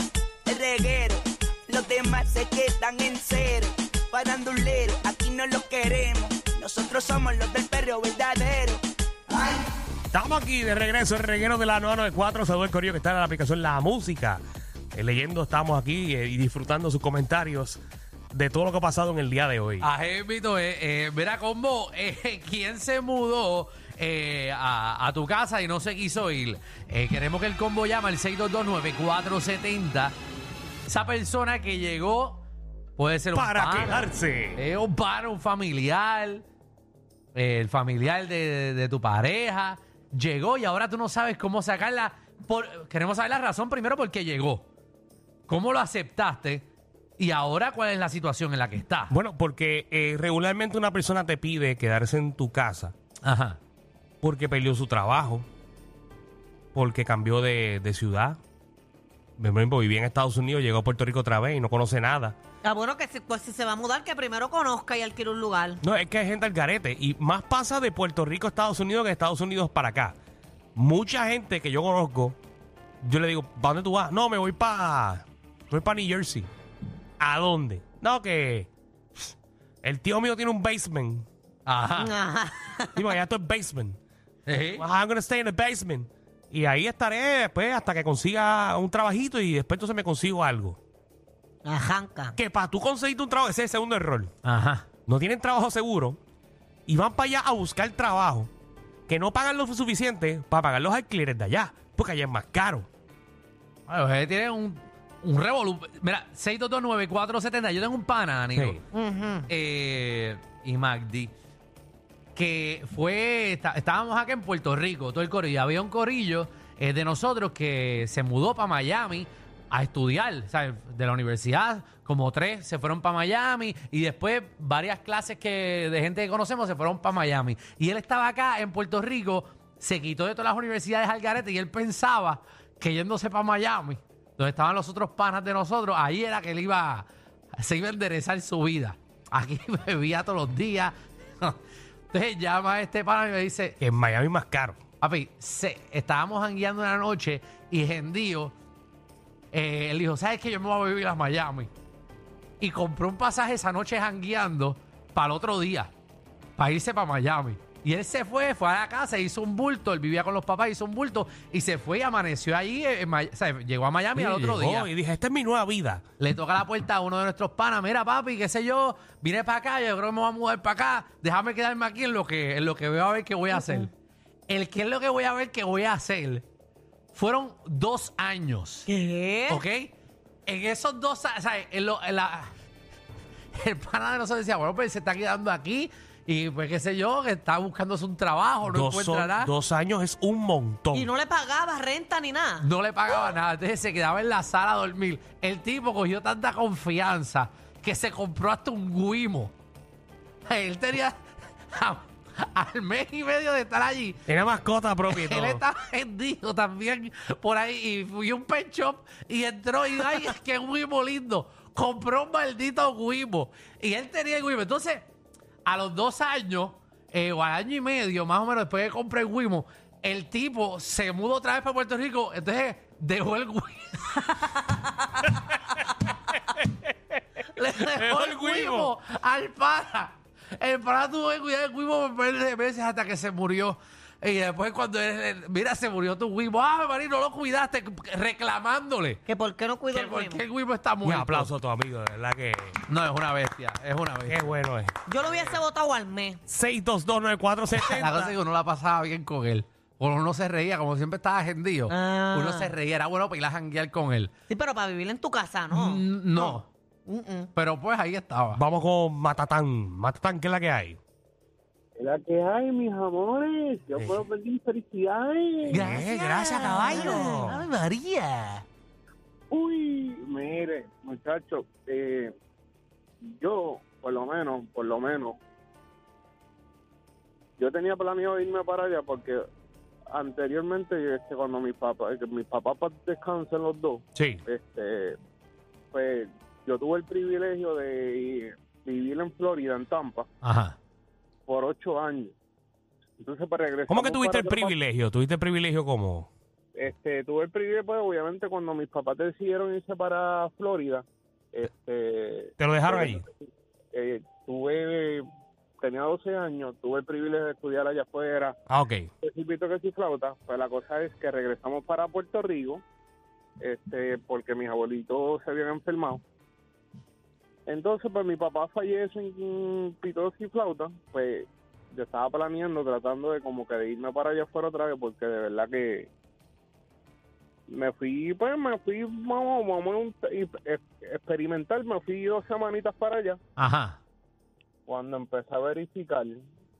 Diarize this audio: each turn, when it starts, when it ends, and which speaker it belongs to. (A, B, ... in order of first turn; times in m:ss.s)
0:00.5-0:09.6 A
0:10.1-0:14.4 B
0:14.9-0:17.8 B
0:18.3-0:19.9 B
0:19.8-0:30.2 C
0:30.9-0:32.4 C
0:33.0-0:36.4 C
0:33.3-0:34.6 B
0:37.3-0:44.7 C
0:45.5-0:46.6 C
0:47.2-0:49.1 C
0:49.1-0:52.9 B
0:53.2-0:53.6 C
0:54.2-0:55.4 B
0:56.7-0:58.4 B
0:59.4-1:02.4 B
1:02.6-1:05.8 D
1:05.8-1:10.2 B
1:10.8-1:12.4 B
1:13.0-1:16.5 B
1:17.2-1:18.7 B
1:19.8-1:21.2 B
1:21.6-1:22.1 C
1:22.0-1:23.1 D
1:23.0-1:24.0 B
1:24.5-1:24.8 C
1:24.8-1:30.8 B
1:31.6-1:32.3 D
1:32.4-1:34.3 B
1:34.4-1:34.9 C
1:35.1-1:36.2 B
1:36.9-1:38.5 B
1:39.1-1:42.9 B
1:43.9-1:48.8 C
1:48.5-1:48.8 B
1:48.9-1:49.5 D
1:49.5-1:51.3 C
1:52.4-2:21.6 C
2:22.1-2:23.8 C
2:23.8-2:24.8 B
2:25.0-2:28.5 C
2:29.5-2:31.7 C
2:32.6-2:35.9 C
2:36.6-2:44.9 C
2:44.1-2:46.0 B
2:46.2-2:53.9 C
2:53.6-2:53.9 D
2:54.5-2:56.4 C
2:57.1-2:58.9 C
2:58.8-2:59.6 D
2:59.5-2:59.9 C
3:00.5-3:02.5 C
3:03.6-3:09.5 C
3:08.7-3:11.1 B
3:10.9-3:12.7 D
3:12.6-3:19.5 C
3:20.4-3:24.3 C
3:24.3-3:25.6 B
3:25.1-3:35.0 C
3:35.6-3:44.3 C
3:44.3-3:45.2 D
3:47.5-3:59.2 C
3:47.9-3:48.9 B
3:59.2-4:00.4 D
3:59.9-4:01.5 C
4:01.0-4:02.8 B
4:02.9-4:04.5 C
4:04.3-4:04.9 B
4:05.1-4:06.4 D
4:06.5-4:08.3 B
4:07.7-4:14.3 C
4:11.9-4:12.7 D
4:14.5-4:17.5 D
4:15.7-4:16.7 C
4:17.5-4:18.6 C
4:18.6-4:21.0 B
4:22.0-4:25.9 E
4:25.7-4:27.9 C
4:25.7-4:27.6 B
4:25.8-4:28.6 D
4:29.5-4:32.3 E
4:33.4-4:35.4 E
4:37.6-4:39.4 E
4:40.1-4:45.2 E
4:44.2-4:44.4 C
4:45.9-4:50.3 E
4:50.4-4:50.8 C
4:51.5-4:52.3 E
4:53.2-4:54.8 E
4:53.9-4:56.3 B
4:56.8-5:03.3 E
5:02.6-5:03.2 B
5:03.9-5:05.2 E
5:05.8-5:08.5 E
5:08.7-5:09.1 B
5:09.2-5:12.8 E
5:13.6-5:16.2 E
5:17.7-5:26.1 E
5:27.7-5:33.4 E
5:33.6-5:34.0 C
5:34.9-5:36.4 E